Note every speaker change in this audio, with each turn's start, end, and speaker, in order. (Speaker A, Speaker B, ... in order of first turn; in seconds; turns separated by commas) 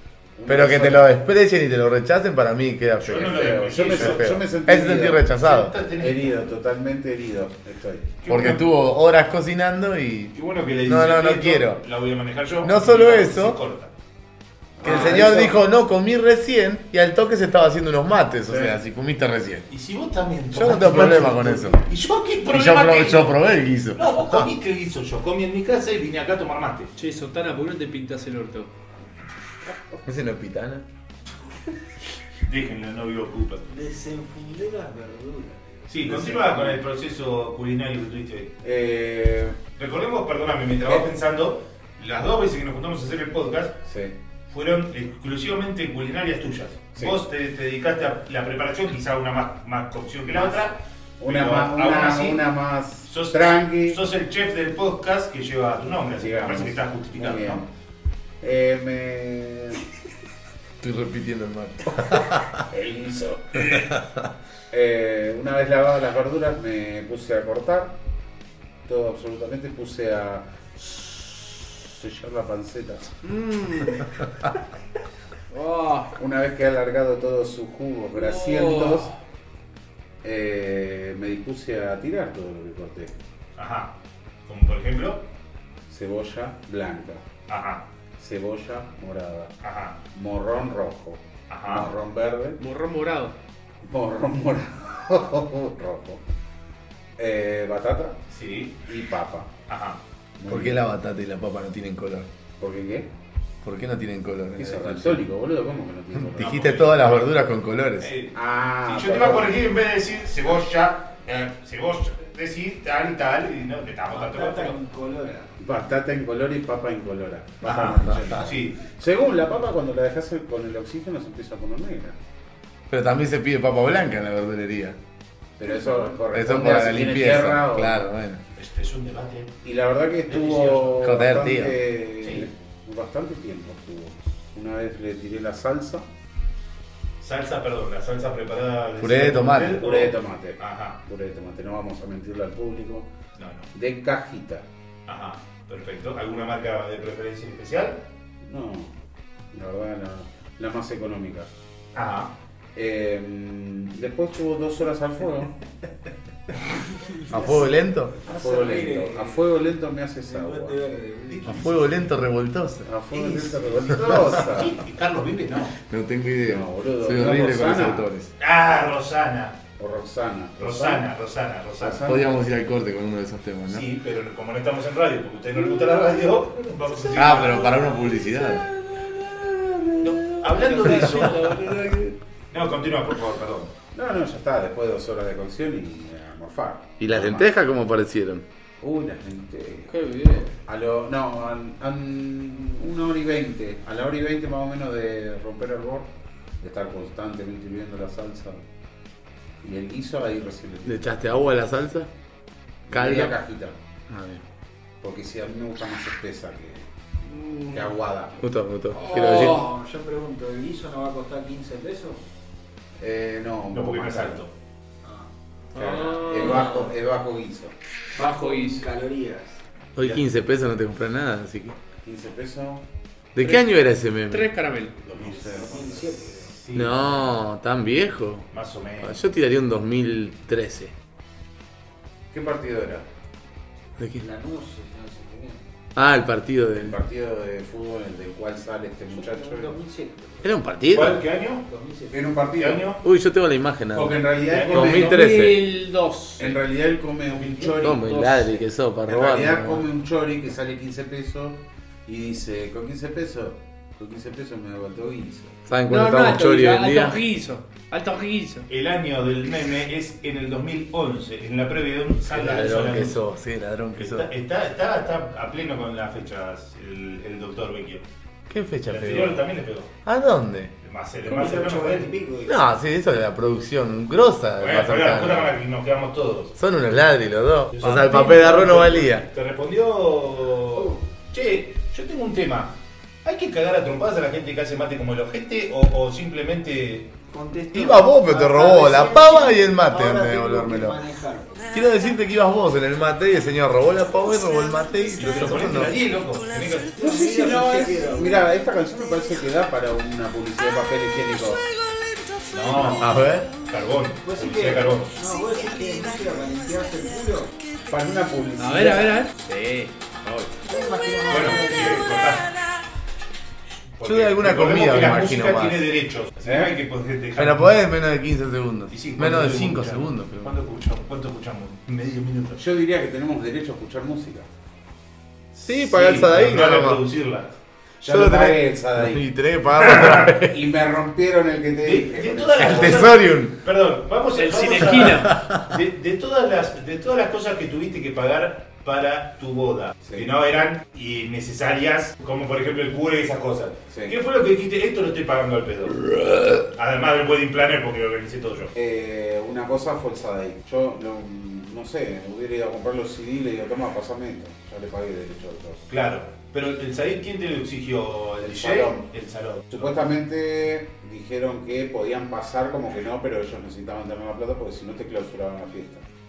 Speaker A: 0.4-1.1, Speaker B: 0.5-5.7, Speaker C: 3.0-4.3, Speaker A: 3.1-5.2, Speaker C: 5.3-6.4, Speaker A: 6.0-8.2, Speaker C: 8.2-8.7, Speaker B: 8.3-10.3, Speaker C: 10.3-13.9, Speaker B: 10.8-11.8, Speaker B: 12.6-13.6, Speaker A: 14.8-15.6, Speaker B: 14.8-19.6, Speaker A: 18.5-18.8, Speaker C: 19.7-23.4, Speaker B: 20.5-21.8, Speaker B: 22.4-24.5, Speaker C: 23.9-26.9, Speaker D: 26.9-28.7, Speaker A: 29.7-30.0, Speaker B: 30.0-30.8, Speaker C: 32.5-33.6, Speaker E: 33.7-35.9, Speaker C: 35.9-38.5, Speaker A: 36.0-36.8, Speaker A: 38.6-39.6, Speaker C: 39.8-43.8, Speaker A: 43.8-44.1, Speaker C: 44.5-52.4, Speaker A: 50.3-50.7, Speaker A: 51.2-54.0, Speaker C: 53.1-57.6, Speaker A: 56.2-57.6, Speaker A: 58.4-59.8, Speaker B: 60.8-62.6, Speaker A: 62.7-63.7, Speaker B: 63.7-64.2, Speaker A: 64.7-68.0, Speaker A: 68.8-73.1, Speaker D: 73.2-74.0, Speaker D: 75.5-76.1, Speaker A: 76.2-79.1, Speaker D: 78.1-79.1, Speaker A: 80.2-83.1, Speaker C: 83.5-83.9, Speaker C: 84.5-85.2, Speaker A: 85.9-87.2, Speaker C: 87.5-87.8, Speaker A: 88.2-89.5, Speaker C: 89.6-90.0, Speaker A: 90.1-92.6, Speaker C: 91.5-91.9, Speaker D: 92.6-93.3, Speaker A: 93.8-96.2, Speaker A: 97.2-98.2, Speaker C: 98.3-98.8, Speaker A: 98.8-99.5, Speaker C: 99.7-100.0, Speaker A: 100.4-100.8, Speaker B: 100.5-102.3, Speaker A: 102.6-103.1, Speaker B: 103.6-105.2, Speaker A: 104.6-106.7, Speaker B: 106.2-108.1, Speaker C: 106.4-107.3, Speaker C: 108.0-114.8, Speaker A: 108.3-109.5, Speaker E: 114.1-115.5, Speaker A: 115.6-122.2, Speaker C: 117.6-118.8, Speaker B: 118.0-118.4, Speaker B: 122.9-125.0, Speaker A: 125.6-128.1, Speaker B: 126.3-128.4, Speaker C: 128.6-129.5, Speaker A: 129.6-136.1, Speaker C: 130.3-131.1, Speaker B: 131.0-131.8, Speaker C: 137.2-141.0, Speaker B: 139.0-139.8, Speaker A: 139.7-143.1, Speaker C: 143.3-143.7, Speaker A: 143.7-144.7, Speaker C: 145.1-148.0, Speaker A: 148.4-148.9, Speaker A: 149.5-151.5, Speaker C: 151.9-152.3, Speaker A: 152.7-155.5, Speaker E: 157.0-159.5, Speaker B: 157.3-158.1, Speaker A: 158.2-160.8, Speaker E: 160.2-161.8, Speaker C: 161.3-162.1, Speaker B: 161.4-162.9, Speaker A: 162.8-164.8, Speaker C: 163.1-165.8, Speaker B: 165.9-168.3, Speaker A: 166.4-168.1, Speaker C: 168.4-169.6, Speaker A: 169.8-171.1, Speaker C: 170.6-172.1, Speaker A: 171.8-172.3, Speaker B: 171.9-173.9, Speaker C: 173.7-178.0, Speaker B: 177.1-182.1, Speaker C: 180.0-181.6, Speaker D: 181.1-181.7, Speaker C: 182.5-183.7, Speaker A: 183.9-187.5, Speaker B: 187.0-188.4, Speaker A: 188.8-189.9, Speaker D: 189.9-190.5, Speaker A: 190.5-196.1, Speaker A: 196.6-198.6, Speaker A: 199.6-201.1, Speaker B: 200.8-202.1, Speaker A: 202.8-203.7, Speaker B: 202.9-203.3, Speaker B: 204.1-204.4, Speaker A: 205.0-206.9, Speaker A: 207.6-208.4, Speaker B: 208.4-209.6, Speaker D: 208.9-209.6, Speaker E: 208.9-212.2, Speaker A: 213.0-214.4, Speaker C: 213.7-214.5, Speaker E: 215.0-215.3, Speaker D: 215.7-216.9, Speaker A: 215.8-217.7, Speaker D: 218.1-218.9, Speaker E: 218.2-219.6, Speaker B: 219.9-221.8, Speaker A: 222.0-222.8, Speaker B: 223.3-224.5, Speaker D: 223.4-223.6, Speaker D: 224.3-225.0, Speaker A: 225.0-226.1, Speaker E: 225.1-226.6, Speaker C: 226.7-227.1, Speaker B: 226.7-228.5, Speaker C: 228.5-229.2, Speaker B: 229.0-230.9, Speaker A: 232.3-233.0, Speaker B: 234.0-234.2, Speaker E: 234.2-235.6, Speaker B: 235.9-236.9, Speaker A: 236.8-239.8, Speaker E: 239.1-240.5, Speaker B: 240.4-241.2, Speaker C: 240.9-241.6, Speaker E: 241.7-242.2, Speaker A: 242.1-242.9, Speaker C: 242.6-243.0, Speaker B: 243.0-244.2, Speaker A: 243.9-245.2, Speaker C: 244.5-245.1, Speaker B: 244.7-245.6, Speaker D: 244.9-246.6, Speaker A: 246.4-248.3, Speaker B: 247.8-249.8, Speaker D: 248.0-248.5, Speaker A: 249.1-255.6, Speaker B: 255.7-257.2, Speaker D: 255.9-258.7, Speaker C: 258.7-263.2, Speaker B: 262.3-264.3, Speaker C: 263.9-268.0, Speaker B: 268.5-269.4, Speaker C: 268.9-269.9, Speaker B: 270.1-270.7, Speaker C: 270.8-272.1, Speaker E: 271.2-272.6, Speaker B: 272.4-275.6, Speaker C: 274.6-276.5, Speaker B: 276.6-279.2, Speaker C: 277.7-287.1, Speaker E: 280.7-281.0, Speaker E: 287.3-291.6, Speaker B: 287.7-291.0, Speaker B: 291.7-295.9, Speaker C: 295.1-296.9, Speaker E: 296.9-298.5, Speaker A: 297.0-301.7, Speaker C: 302.5-303.1, Speaker B: 302.8-303.5, Speaker C: 303.6-305.1, Speaker E: 304.2-307.6, Speaker A: 307.9-309.2, Speaker D: 308.6-310.5, Speaker E: 310.6-312.1, Speaker C: 311.3-312.6, Speaker C: 314.0-317.8, Speaker B: 314.0-315.8, Speaker A: 316.4-316.7, Speaker B: 317.4-320.6, Speaker C: 318.9-322.6, Speaker A: 322.6-324.4, Speaker B: 325.6-327.0, Speaker C: 325.6-327.5, Speaker A: 328.0-329.2, Speaker B: 328.0-330.6, Speaker A: 330.4-333.1, Speaker C: 331.8-348.7, Speaker B: 332.6-333.6, Speaker D: 334.3-335.3, Speaker B: 335.0-335.7, Speaker A: 343.9-344.1, Speaker A: 348.7-355.8, Speaker C: 355.9-359.9, Speaker A: 358.4-359.0, Speaker A: 359.7-366.0